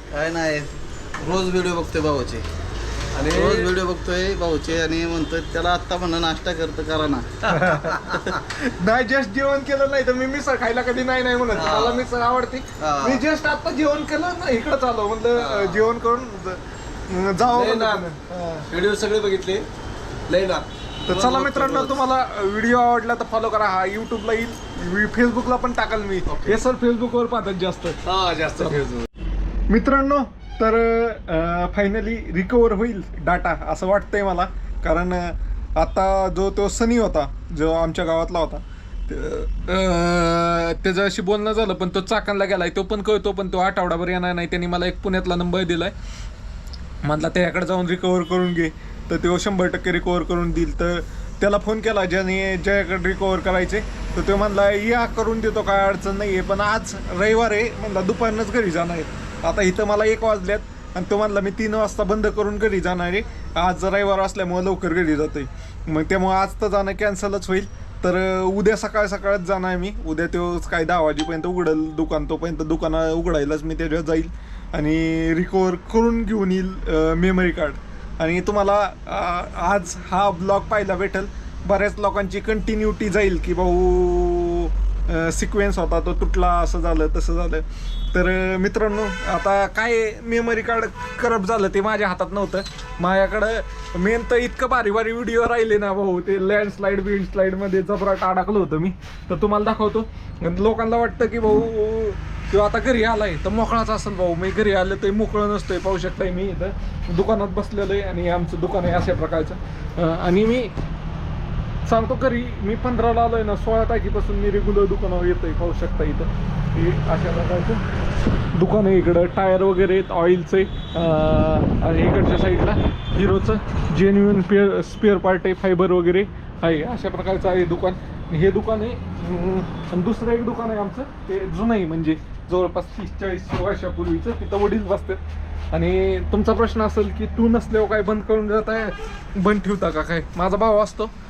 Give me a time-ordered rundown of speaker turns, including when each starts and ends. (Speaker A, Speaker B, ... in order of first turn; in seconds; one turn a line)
Speaker A: 0.1-2.5
Speaker B: 3.1-3.8
Speaker A: 3.3-8.3
Speaker C: 7.5-18.7
Speaker A: 11.5-12.1
Speaker A: 12.8-13.2
Speaker B: 15.4-15.9
Speaker B: 17.4-18.1
Speaker B: 18.7-19.6
Speaker B: 20.3-22.0
Speaker C: 21.1-28.0
Speaker B: 26.3-26.6
Speaker B: 28.0-29.1
Speaker C: 29.7-45.9
Speaker C: 47.0-110.7
Speaker C: 111.8-117.8
Speaker C: 118.5-135.2
Speaker C: 135.7-141.1